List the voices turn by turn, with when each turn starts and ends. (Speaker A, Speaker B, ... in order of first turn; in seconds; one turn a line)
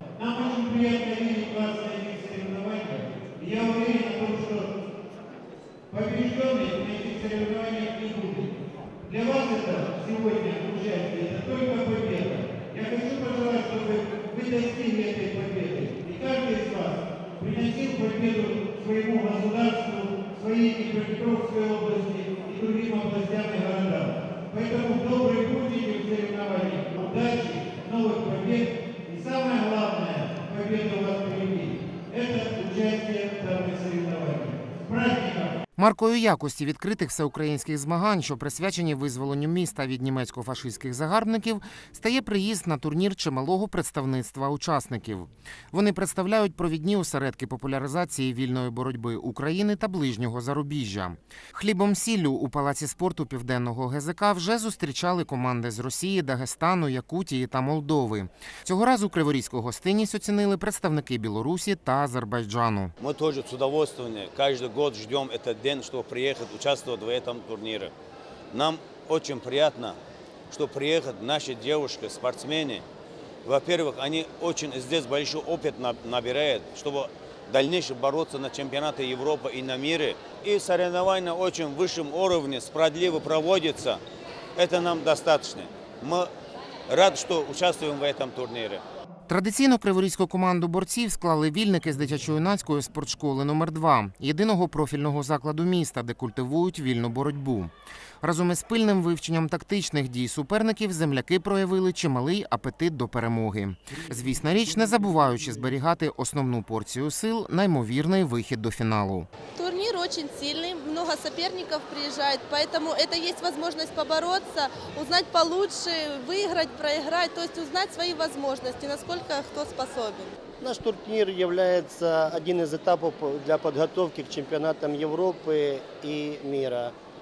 Speaker A: 0.2-4.7
Speaker A: 5.9-35.5
Speaker B: 35.8-62.9
Speaker C: 63.0-67.9
Speaker C: 68.5-70.0
Speaker C: 70.5-72.8
Speaker C: 73.5-84.0
Speaker C: 84.6-86.3
Speaker C: 86.9-88.8
Speaker B: 89.3-109.3
Speaker D: 109.6-120.3
Speaker E: 120.6-126.9